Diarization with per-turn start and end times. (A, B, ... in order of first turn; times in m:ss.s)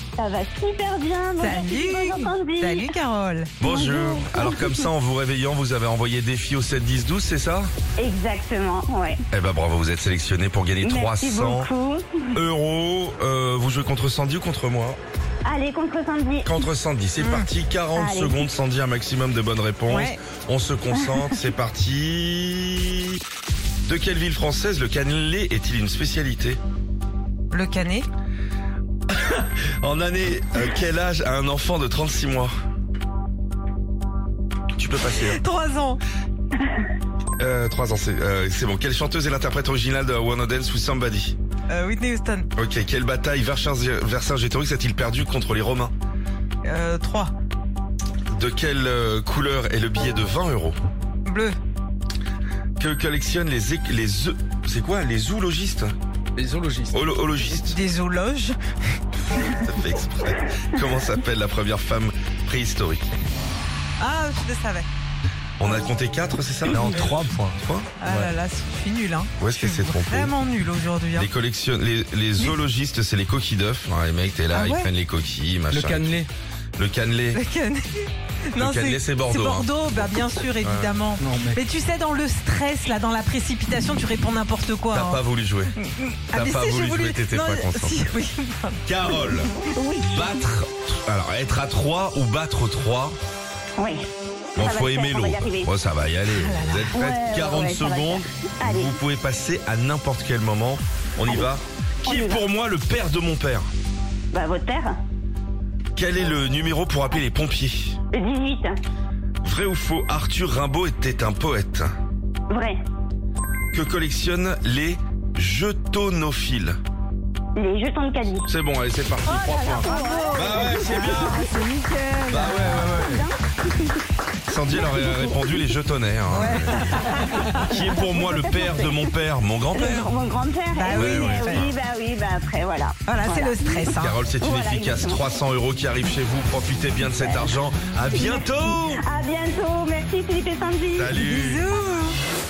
0:00.2-0:02.9 A
0:01.4-0:03.5 B
0:03.6-0:07.7 C
0:03.6-0:04.9 A
0:08.0-0:09.2 A
0:09.3-0:11.7 C
0:10.8-0:12.4 A
0:12.3-0:15.0 C
0:15.4-0:16.6 A
0:16.4-0:23.2 C
0:17.2-0:17.5 B
0:17.9-0:18.4 A
0:19.9-0:20.2 B
0:20.9-0:21.4 A
0:23.8-0:26.6 C
0:27.5-0:28.1 B
0:29.1-0:32.5 C
0:34.8-0:35.4 C
0:35.2-0:36.0 B
0:37.4-0:41.4 C
0:41.7-0:42.5 B
0:42.6-0:45.9 C
0:46.6-0:47.3 B
0:48.3-0:50.8 C
0:51.2-0:51.6 B
0:52.8-0:55.9 C
0:56.4-0:57.1 D
0:56.9-0:57.8 C
0:57.4-0:58.6 B
0:59.6-1:03.1 C
1:04.0-1:04.9 B
1:05.6-1:07.9 C
1:06.9-1:07.5 D
1:08.0-1:11.3 B
1:08.0-1:08.3 D
1:09.4-1:10.4 C
1:11.2-1:16.1 C
1:14.5-1:14.9 B
1:15.7-1:16.3 D
1:16.8-1:17.4 C
1:17.3-1:25.2 B
1:18.6-1:21.0 C
1:21.2-1:21.6 D
1:24.9-1:25.7 C
1:25.8-1:28.8 B
1:26.3-1:28.0 C
1:28.8-1:33.2 C
1:29.6-1:30.4 A
1:33.8-1:34.0 A
1:34.6-1:43.7 C
1:34.6-1:35.7 A
1:36.3-1:37.0 B
1:36.9-1:39.0 A
1:42.0-1:42.4 A
1:44.3-1:45.0 A
1:46.0-1:48.0 C
1:48.1-1:48.8 A
1:49.4-1:51.9 C
1:52.5-1:52.8 A
1:53.7-1:56.8 C
1:57.5-1:58.5 A
1:58.5-2:01.4 C
1:59.2-2:03.0 B
1:59.3-2:04.0 A
2:02.3-2:03.2 C
2:04.5-2:10.1 C
2:04.7-2:05.6 A
2:06.3-2:07.6 B
2:06.7-2:09.1 A
2:09.7-2:15.2 A
2:09.8-2:10.0 B
2:10.8-2:11.7 B
2:10.9-2:11.7 C
2:13.0-2:14.2 B
2:13.9-2:19.0 C
2:17.1-2:17.6 A
2:18.1-2:21.1 A
2:21.0-2:21.7 C
2:21.2-2:22.2 B